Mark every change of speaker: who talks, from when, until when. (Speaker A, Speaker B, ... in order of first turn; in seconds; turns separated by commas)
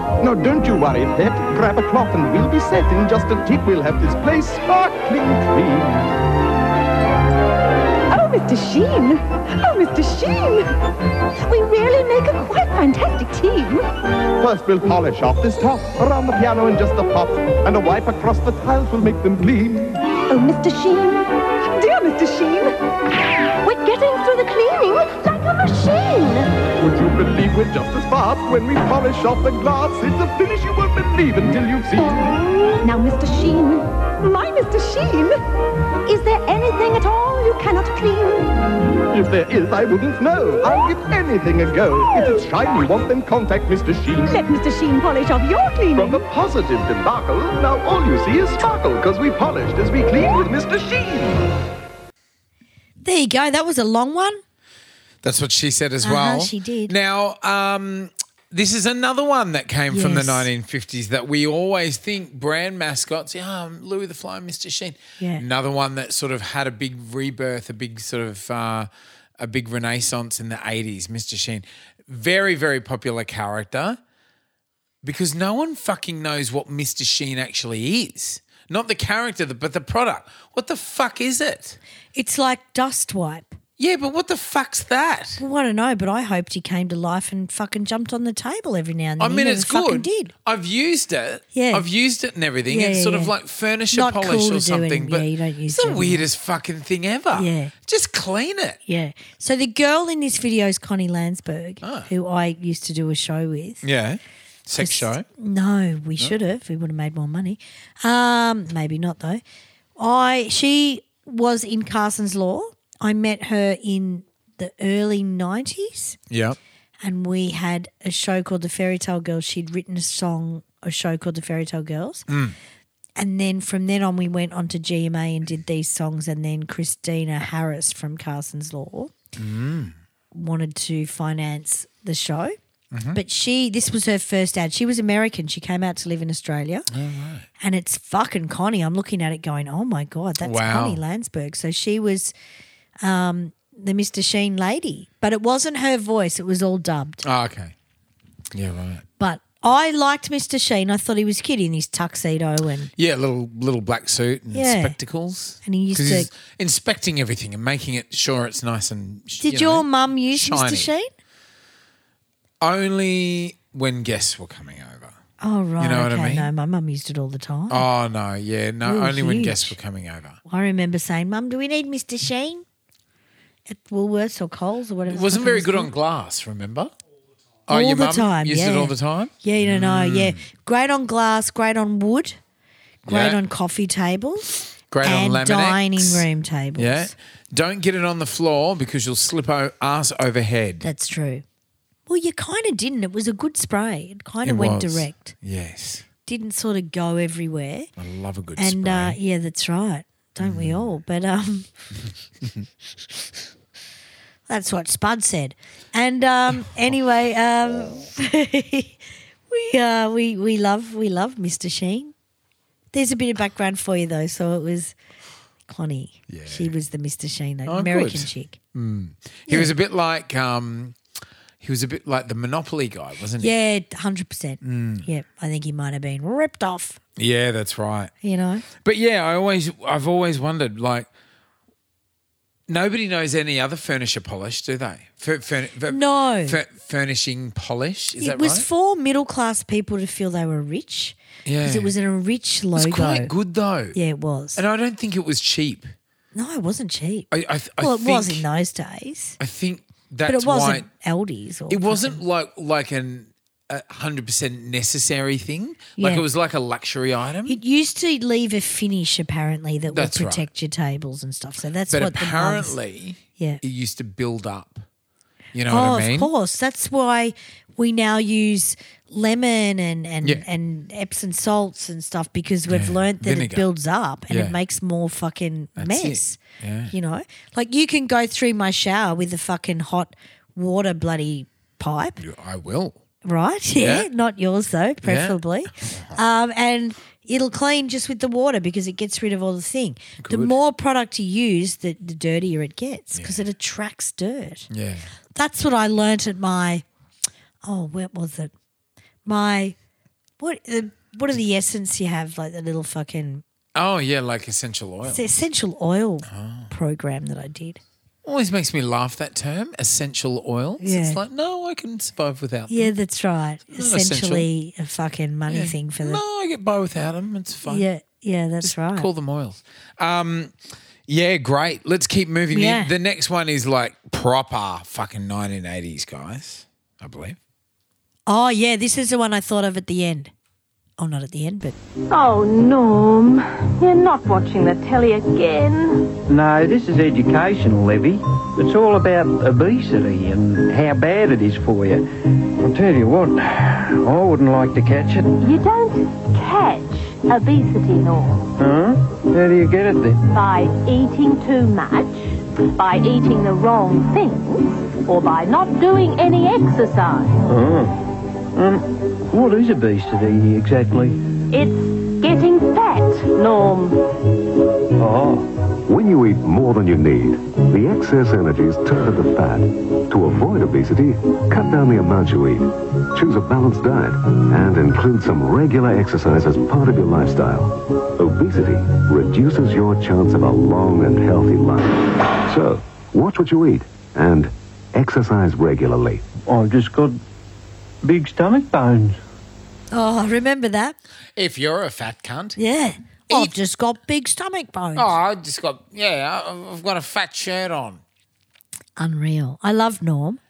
Speaker A: 0.2-6.1, Speaker B: 8.1-10.7, Speaker B: 11.5-13.9, Speaker A: 14.4-20.0, Speaker B: 20.3-22.8, Speaker B: 23.6-26.5, Speaker A: 26.8-32.3, Speaker B: 32.8-35.4, Speaker B: 36.1-38.5, Speaker A: 39.1-44.3, Speaker B: 42.1-42.5, Speaker B: 44.2-46.2, Speaker A: 46.0-51.4, Speaker C: 53.0-54.4, Speaker D: 55.2-74.0, Speaker C: 56.0-57.0, Speaker C: 59.9-60.5, Speaker C: 65.2-65.5, Speaker D: 75.0-81.8, Speaker C: 82.2-83.5, Speaker D: 83.8-85.4, Speaker C: 85.4-90.3, Speaker D: 89.2-98.8, Speaker C: 91.5-91.9, Speaker C: 92.7-93.3, Speaker C: 93.9-96.3, Speaker C: 97.3-97.7, Speaker C: 98.9-103.8, Speaker D: 101.8-102.1, Speaker D: 103.8-105.2, Speaker C: 104.8-109.4, Speaker C: 110.0-116.2, Speaker D: 116.3-116.6, Speaker C: 117.0-122.3, Speaker D: 122.3-122.6, Speaker C: 123.2-129.1, Speaker D: 129.4-130.0, Speaker C: 130.3-132.6, Speaker D: 132.9-133.2, Speaker C: 133.1-136.9, Speaker D: 136.9-137.5, Speaker C: 137.6-142.3, Speaker D: 140.4-141.0, Speaker C: 143.0-147.2, Speaker D: 147.2-147.7, Speaker D: 148.5-149.1, Speaker C: 149.2-152.9, Speaker D: 153.0-160.9, Speaker C: 154.5-155.0, Speaker C: 155.6-156.3, Speaker C: 159.4-161.1, Speaker D: 162.6-165.2, Speaker C: 165.4-167.8, Speaker D: 165.8-166.5, Speaker D: 167.7-170.4, Speaker C: 168.8-169.8, Speaker C: 170.5-172.7, Speaker C: 173.7-175.9, Speaker D: 175.1-176.9, Speaker D: 177.7-180.4, Speaker C: 177.7-182.4, Speaker D: 183.1-183.4, Speaker C: 183.1-187.1, Speaker D: 184.9-190.8, Speaker C: 190.8-191.4, Speaker C: 192.1-195.3, Speaker D: 194.4-196.1, Speaker C: 196.3-197.9, Speaker D: 198.0-199.2, Speaker C: 198.6-201.7, Speaker D: 200.4-200.9, Speaker D: 202.4-202.7, Speaker C: 204.5-209.0, Speaker C: 209.5-212.1, Speaker C: 212.9-215.0, Speaker C: 215.7-218.6, Speaker D: 216.3-216.7, Speaker D: 217.7-221.0, Speaker C: 219.5-219.7, Speaker D: 221.6-223.5, Speaker C: 223.4-227.0, Speaker D: 224.6-225.1, Speaker D: 227.2-228.1, Speaker C: 228.2-228.7, Speaker D: 228.7-231.1, Speaker D: 232.7-238.7, Speaker C: 235.9-236.6, Speaker C: 238.2-243.3, Speaker D: 241.4-241.9, Speaker D: 242.8-244.0, Speaker C: 243.9-244.6, Speaker D: 244.6-245.9, Speaker C: 246.3-249.4, Speaker D: 247.3-248.4, Speaker D: 249.4-250.9, Speaker C: 250.3-252.2, Speaker D: 251.7-257.6, Speaker C: 256.0-256.2, Speaker C: 257.5-262.8, Speaker D: 259.9-260.5, Speaker D: 261.9-264.9, Speaker D: 265.5-266.3, Speaker C: 265.7-276.4, Speaker D: 272.7-273.7, Speaker D: 274.3-274.6, Speaker D: 275.8-276.9, Speaker C: 276.9-282.2, Speaker D: 282.2-283.0, Speaker C: 283.2-294.7, Speaker D: 283.8-284.1, Speaker D: 285.0-286.2, Speaker D: 290.2-290.6, Speaker D: 294.7-295.1, Speaker C: 295.4-296.8, Speaker C: 297.6-298.5, Speaker C: 299.3-299.8, Speaker C: 300.4-303.4, Speaker D: 303.8-305.3, Speaker C: 305.1-307.8, Speaker D: 306.3-306.7, Speaker D: 308.2-312.9, Speaker C: 310.8-311.2, Speaker C: 312.7-316.2, Speaker D: 313.7-314.5, Speaker D: 315.5-317.9, Speaker C: 317.7-319.1, Speaker D: 318.6-320.6, Speaker D: 321.1-327.4, Speaker C: 322.5-322.9, Speaker C: 328.3-330.3, Speaker C: 331.0-331.8, Speaker E: 332.1-336.2, Speaker F: 336.3-342.1, Speaker F: 342.6-345.4, Speaker E: 345.4-348.5, Speaker F: 348.6-350.2, Speaker E: 350.3-357.4, Speaker F: 357.5-358.0, Speaker F: 358.6-361.2, Speaker E: 361.5-364.0, Speaker F: 365.0-365.5, Speaker G: 365.9-386.2, Speaker F: 386.5-387.2, Speaker F: 388.0-389.2, Speaker C: 389.9-391.0, Speaker D: 391.4-392.6, Speaker C: 392.6-395.1, Speaker D: 395.0-398.0, Speaker C: 399.0-400.4